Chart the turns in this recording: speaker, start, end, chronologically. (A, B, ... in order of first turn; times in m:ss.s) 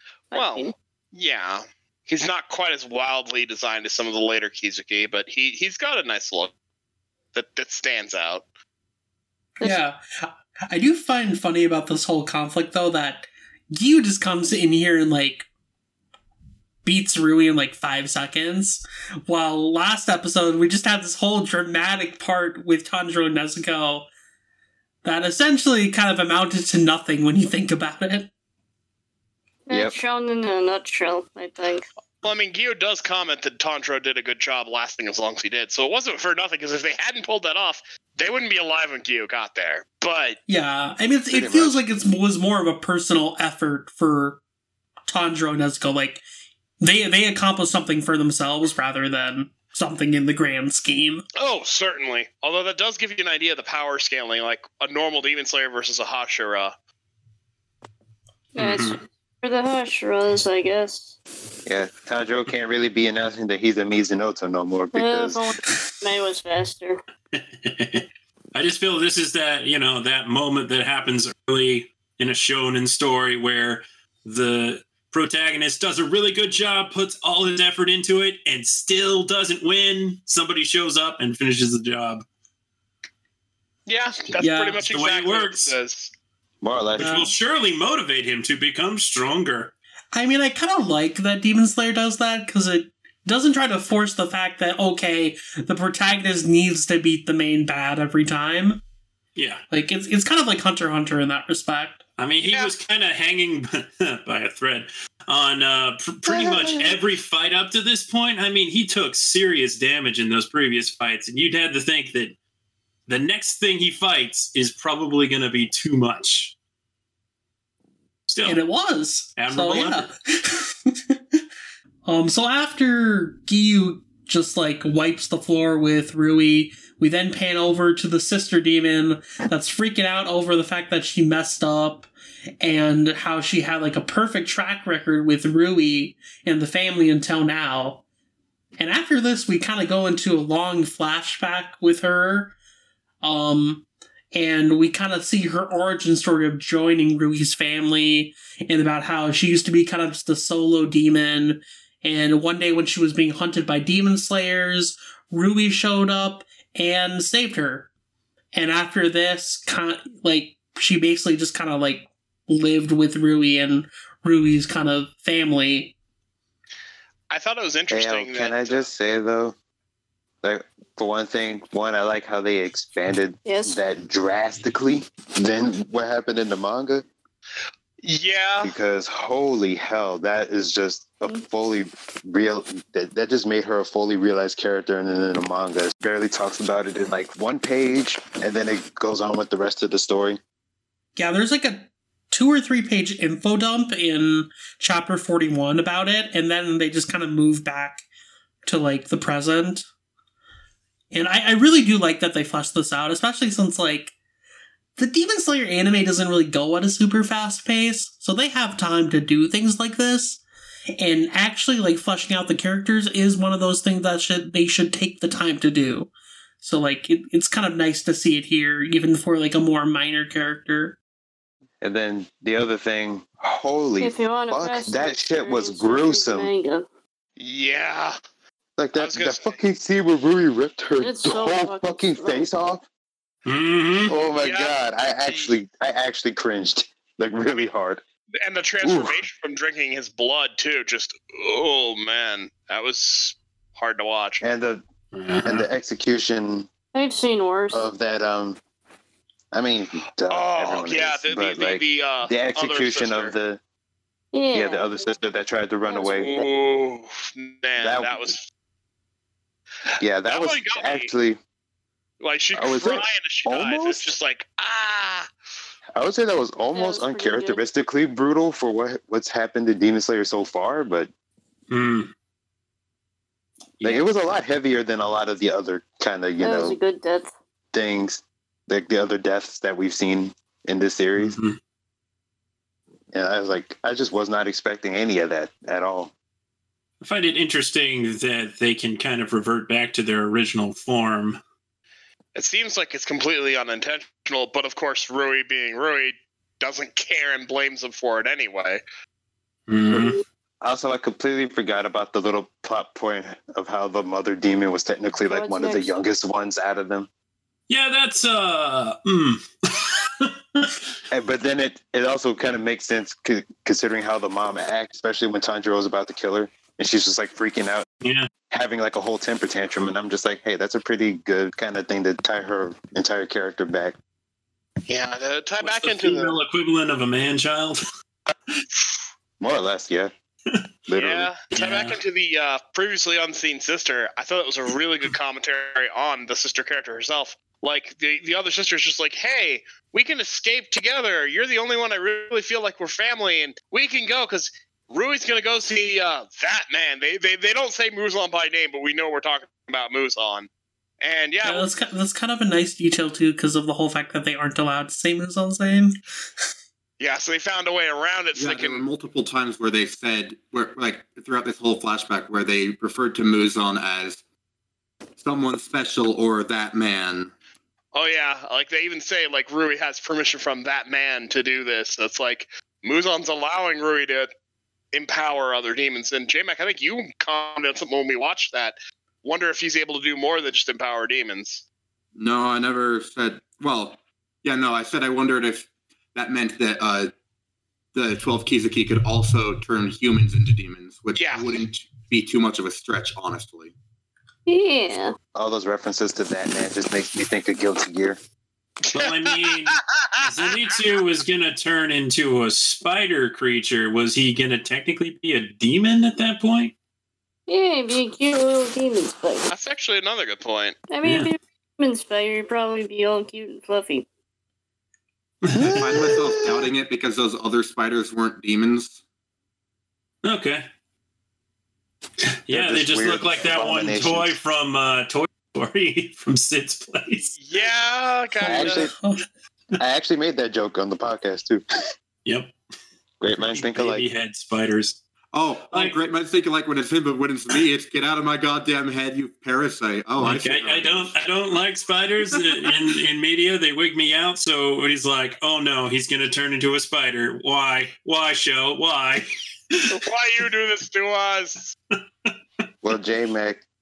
0:00.3-0:00.7 A
0:00.3-0:06.5 B
0:07.3-0:08.4 B
0:09.6-0:15.5 C
0:16.8-0:24.1 C
0:25.0-0:28.3 C
0:29.7-0:31.9 A
0:29.7-0:30.0 D
0:32.2-0:40.4 B
0:40.5-0:44.4 C
0:41.3-0:41.8 D
0:45.1-0:46.2 C
0:46.8-0:51.2 C
0:51.4-0:56.7 B
0:58.5-1:01.2 A
0:58.6-0:59.0 E
1:01.6-1:05.4 D
1:04.9-1:07.0 A
1:07.3-1:22.2 E
1:23.9-1:26.1 B
1:24.4-1:24.8 C
1:24.8-1:25.7 E
1:26.6-1:27.3 D
1:27.0-1:29.7 E
1:27.0-1:27.3 C
1:30.1-1:38.8 C
1:39.4-1:39.6 E
1:39.7-1:42.0 C
1:42.2-1:52.3 E
1:42.4-1:42.7 B
1:53.1-1:56.5 E
1:58.3-1:58.6 E
1:58.4-2:01.1 C
1:59.4-2:00.1 E
2:02.0-2:12.1 C
2:12.6-2:18.0 C
2:18.8-2:22.5 C
2:23.2-2:37.9 C
2:38.5-2:45.9 C
2:47.3-2:48.9 B
2:47.9-2:49.5 D
2:50.4-2:57.0 D
2:53.4-2:53.8 A
2:58.0-2:58.7 B
2:58.6-3:10.4 D
3:11.2-3:18.0 C
3:18.6-3:19.8 C
3:21.1-3:24.1 C
3:25.0-3:30.4 C
3:31.0-3:36.1 C
3:36.6-3:41.0 C
3:41.8-3:46.5 D
3:44.0-3:46.9 A
3:47.4-3:48.2 B
3:48.8-3:52.8 D
3:48.9-3:49.6 B
3:51.0-3:52.5 A
3:53.4-3:54.1 E
3:54.0-3:58.0 D
3:54.4-3:55.5 B
3:58.4-4:04.4 B
3:58.8-3:59.2 D
4:04.4-4:04.8 D
4:05.1-4:05.7 E
4:05.4-4:06.7 D
4:06.9-4:07.9 A
4:07.7-4:08.6 D
4:09.5-4:13.6 D
4:10.3-4:13.3 B
4:14.3-4:15.0 A
4:14.5-4:16.4 D
4:15.9-4:18.4 B
4:17.8-4:18.3 D
4:20.0-4:21.4 D
4:20.2-4:21.1 B
4:22.2-4:25.3 B
4:22.5-4:24.1 D
4:25.9-4:31.1 D
4:26.7-4:27.6 A
4:31.7-4:32.1 E
4:33.8-4:34.1 E
4:33.8-4:36.8 D
4:36.4-4:37.3 A
4:37.7-4:41.4 D
4:41.2-4:41.6 E
4:43.1-4:46.1 D
4:47.0-4:51.4 E
4:52.3-4:58.8 B
4:59.7-5:00.2 E
5:00.6-5:07.1 D
5:05.2-5:05.9 A
5:07.7-5:10.7 E
5:11.1-5:17.8 D
5:18.0-5:18.3 E
5:18.5-5:24.0 D
5:24.9-5:26.4 B
5:25.6-5:27.8 E
5:29.4-5:30.1 D
5:30.9-5:31.3 D
5:31.0-5:50.5 B
5:31.5-5:32.0 E
5:51.0-5:51.7 B
5:51.4-5:56.0 C
5:57.0-5:58.8 B
5:58.3-6:04.2 F
6:05.2-6:07.3 F
6:07.9-6:14.3 B
6:14.9-6:21.6 B
6:22.2-6:27.1 F
6:27.9-6:33.7 F
6:31.2-6:31.5 B
6:34.4-6:35.1 A
6:35.3-6:38.2 D
6:38.8-6:40.2 B
6:38.9-6:46.7 E
6:47.5-6:49.5 A
6:49.5-6:50.8 B
6:50.9-6:54.1 A
6:51.0-6:51.3 E
6:55.4-6:56.4 E
6:55.6-6:56.3 D
6:55.6-6:59.0 F
7:00.2-7:00.6 E
7:02.4-7:07.4 E
7:02.5-7:04.4 D
7:07.4-7:08.9 B
7:08.4-7:09.2 C
7:08.4-7:08.9 D
7:09.8-7:11.6 D
7:12.2-7:12.5 E
7:13.2-7:14.0 D
7:13.4-7:15.0 E
7:15.3-7:21.1 F
7:15.7-7:16.0 E
7:20.2-7:29.9 E
7:29.9-7:31.7 B
7:32.8-7:33.6 D